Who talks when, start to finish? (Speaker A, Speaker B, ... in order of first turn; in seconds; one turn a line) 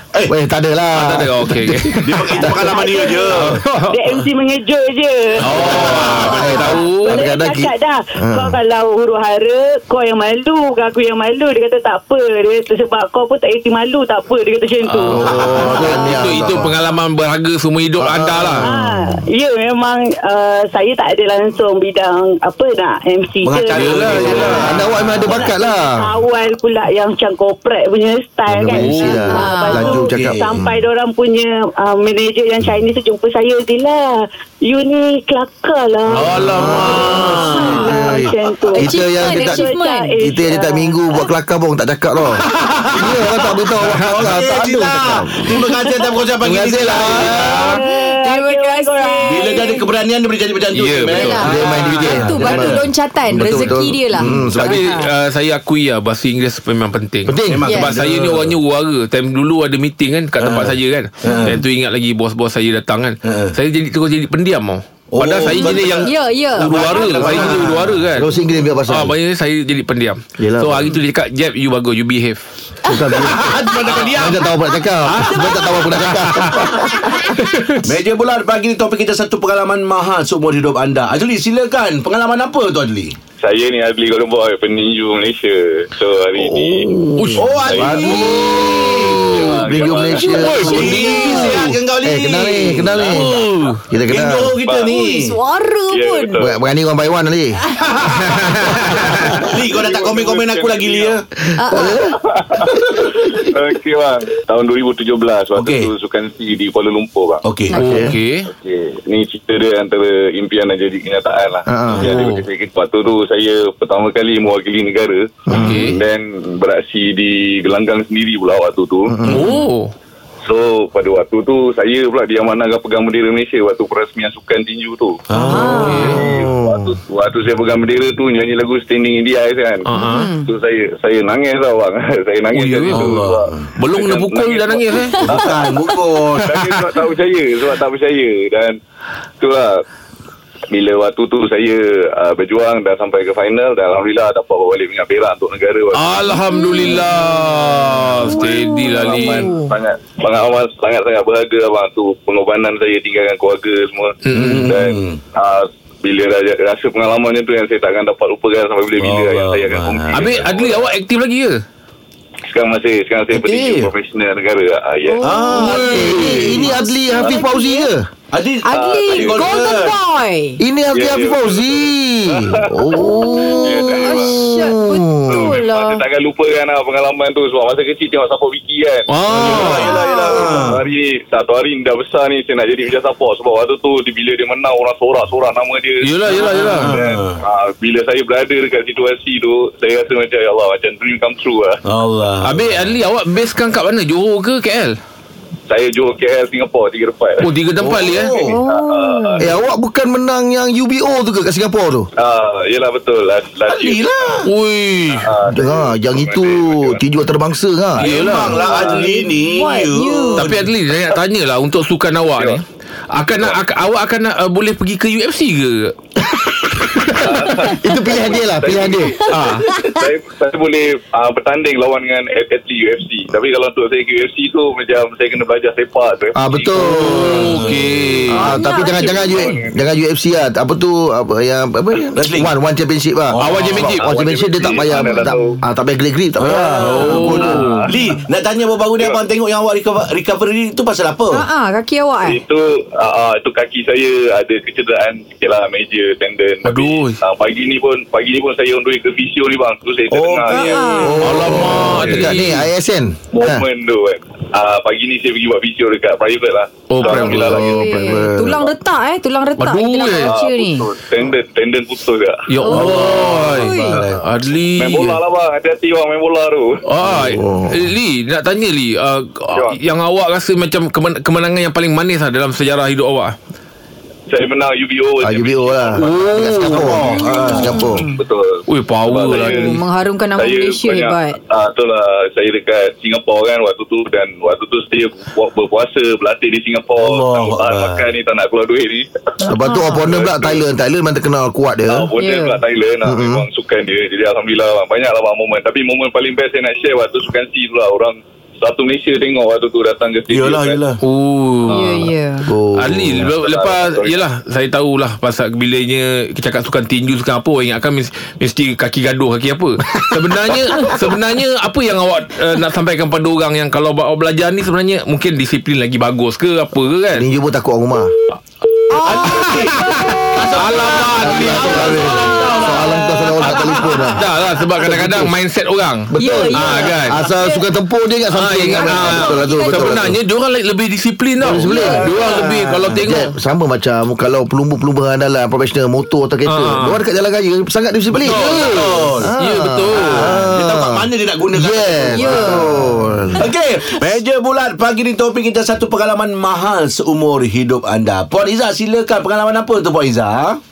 Speaker A: 0.3-2.6
Speaker B: 0.9-2.3
Speaker C: 2.0-3.6
Speaker D: 2.3-16.2
Speaker B: 3.4-4.0
Speaker B: 5.4-7.3
Speaker C: 5.5-6.5
Speaker A: 6.2-8.6
Speaker B: 14.8-18.7
Speaker A: 15.1-16.8
Speaker C: 18.0-18.6
Speaker A: 18.6-19.2
Speaker D: 18.7-24.7
Speaker C: 23.4-25.5
Speaker B: 23.7-24.8
Speaker A: 24.6-26.1
Speaker D: 25.3-41.2
Speaker A: 28.5-30.8
Speaker B: 28.7-29.3
Speaker E: 29.3-30.0
Speaker C: 30.1-30.5
Speaker B: 36.1-37.6
Speaker A: 36.4-42.4
Speaker C: 37.3-37.8
Speaker E: 37.5-38.2
Speaker E: 38.7-40.1
Speaker C: 42.2-47.8
Speaker A: 42.9-45.7
Speaker B: 43.8-44.5
Speaker A: 46.4-47.4
Speaker B: 46.6-47.8
Speaker D: 47.3-49.9
Speaker E: 47.6-49.7
Speaker C: 49.2-52.9
Speaker B: 50.7-52.2
Speaker E: 51.1-55.1
Speaker A: 51.4-54.8
Speaker C: 54.1-54.6
Speaker B: 54.6-68.3
Speaker A: 57.3-57.8
Speaker C: 57.5-58.5
Speaker E: 57.6-58.0
Speaker C: 60.4-61.6
Speaker E: 61.3-61.5
Speaker C: 63.2-63.6
Speaker C: 65.1-68.0
Speaker E: 65.5-67.5
Speaker A: 68.1-69.2
Speaker B: 68.9-72.4
Speaker A: 70.4-70.9
Speaker A: 72.9-73.5
Speaker C: 73.1-74.5
Speaker A: 74.1-76.9
Speaker B: 75.1-77.9
Speaker E: 75.3-75.8
Speaker C: 77.8-83.2
Speaker F: 83.4-86.9
Speaker A: 86.4-88.5
Speaker B: 87.2-87.5
Speaker C: 87.4-89.3
Speaker F: 87.7-88.5
Speaker B: 88.1-91.6
Speaker F: 89.1-90.6
Speaker A: 89.7-93.3
Speaker C: 90.5-93.5
Speaker E: 90.6-91.5
Speaker B: 93.1-93.8
Speaker A: 93.9-94.5
Speaker C: 94.1-95.4
Speaker F: 94.6-94.9
Speaker E: 94.9-96.4
Speaker F: 95.9-96.5
Speaker A: 96.4-97.6
Speaker C: 97.8-101.2
Speaker B: 98.2-98.6
Speaker F: 99.4-101.2
Speaker E: 101.6-102.0
Speaker A: 101.7-102.2
Speaker F: 101.8-107.4
Speaker C: 102.9-103.5
Speaker C: 105.5-105.9
Speaker C: 107.5-107.8
Speaker E: 107.7-108.0
Speaker B: 107.8-108.5
Speaker A: 107.8-108.1
Speaker F: 108.5-119.2
Speaker A: 111.7-112.2
Speaker B: 112.0-112.4
Speaker A: 115.5-115.9
Speaker B: 115.5-116.0
Speaker A: 119.1-119.5
Speaker B: 119.3-119.9
Speaker F: 120.5-138.8
Speaker C: 125.3-126.0
Speaker E: 125.4-126.2
Speaker B: 125.8-126.2
Speaker A: 126.0-127.0
Speaker B: 129.9-130.3
Speaker E: 130.0-130.5
Speaker B: 132.5-133.2
Speaker C: 132.8-133.7
Speaker B: 133.8-135.5
Speaker C: 135.3-136.7
Speaker F: 139.4-139.8
Speaker F: 140.7-146.3
Speaker B: 145.9-149.5
Speaker E: 146.5-147.1
Speaker E: 148.3-149.7
Speaker F: 148.3-160.8
Speaker B: 154.3-154.7
Speaker C: 154.3-155.2
Speaker C: 159.0-160.5
Speaker B: 160.1-161.6
Speaker F: 162.5-165.7
Speaker C: 163.3-163.9
Speaker E: 165.1-167.9
Speaker C: 165.2-166.7
Speaker A: 165.8-168.1
Speaker B: 165.9-166.4
Speaker C: 168.3-170.0
Speaker E: 168.7-170.6
Speaker F: 168.7-169.7
Speaker A: 170.6-175.6
Speaker F: 170.9-174.4
Speaker E: 172.9-176.0
Speaker F: 175.3-191.8
Speaker B: 179.1-180.0
Speaker C: 179.3-180.8
Speaker B: 186.0-187.0
Speaker C: 186.4-187.4
Speaker C: 191.8-192.9
Speaker B: 192.4-195.0
Speaker F: 195.7-199.5
Speaker B: 197.4-198.4
Speaker C: 197.8-198.6
Speaker E: 198.5-199.4
Speaker A: 199.4-202.1
Speaker F: 202.2-204.3
Speaker C: 203.7-204.5
Speaker B: 204.5-205.3
Speaker F: 205.2-207.0
Speaker A: 205.5-208.0
Speaker F: 208.0-209.2
Speaker C: 208.0-210.7
Speaker B: 208.0-208.7
Speaker E: 208.6-210.5
Speaker B: 210.4-215.9
Speaker A: 216.8-219.2
Speaker F: 217.1-227.4
Speaker B: 219.3-219.7
Speaker A: 226.4-227.6
Speaker B: 226.9-228.5
Speaker C: 227.4-227.9
Speaker A: 228.3-237.6
Speaker E: 228.4-229.3
Speaker F: 228.5-229.8
Speaker C: 232.1-232.5
Speaker C: 233.3-234.1
Speaker B: 233.4-234.1
Speaker F: 233.9-235.6
Speaker E: 235.0-235.6
Speaker C: 236.4-241.4
Speaker B: 236.8-237.9
Speaker F: 237.4-237.8
Speaker E: 241.3-242.4
Speaker F: 242.2-252.3
Speaker B: 246.7-247.2
Speaker C: 250.1-251.4
Speaker E: 250.5-251.2
Speaker A: 251.0-253.7
Speaker B: 251.2-252.7
Speaker F: 253.3-258.1
Speaker B: 256.9-257.6
Speaker A: 257.0-258.7
Speaker E: 257.6-260.9
Speaker B: 259.6-260.3
Speaker F: 260.2-262.4
Speaker B: 262.5-265.2
Speaker E: 262.6-264.0
Speaker C: 262.7-264.2
Speaker F: 264.8-266.8
Speaker B: 266.9-273.4
Speaker A: 267.1-267.9
Speaker F: 269.5-269.8
Speaker F: 274.3-276.3
Speaker A: 275.2-278.1
Speaker B: 276.0-277.1
Speaker C: 276.6-277.7
Speaker F: 277.2-279.8
Speaker E: 277.5-278.1
Speaker B: 278.7-279.8
Speaker E: 279.3-281.4
Speaker F: 280.4-289.1
Speaker C: 287.0-288.1
Speaker A: 289.5-292.1
Speaker E: 289.5-290.1
Speaker F: 290.1-290.6
Speaker F: 291.9-300.8
Speaker E: 292.2-292.6
Speaker A: 293.1-293.4
Speaker C: 300.3-301.0
Speaker B: 301.0-302.1
Speaker E: 301.7-302.5
Speaker A: 302.4-303.3
Speaker B: 302.8-317.3
Speaker F: 303.2-304.2
Speaker A: 317.1-318.1
Speaker E: 318.9-320.4
Speaker C: 319.0-322.8
Speaker B: 319.4-327.2
Speaker A: 321.2-325.4
Speaker E: 322.1-322.8
Speaker C: 323.4-324.1
Speaker A: 326.1-330.2
Speaker E: 326.2-327.6
Speaker B: 328.3-333.3
Speaker E: 328.7-330.0
Speaker A: 331.4-332.4
Speaker E: 331.6-332.2
Speaker C: 332.1-332.9
Speaker A: 332.9-338.7
Speaker B: 336.5-337.0
Speaker C: 338.2-339.3
Speaker B: 338.2-340.4
Speaker A: 339.2-343.5
Speaker C: 339.9-342.7
Speaker E: 342.1-343.4
Speaker C: 343.4-350.6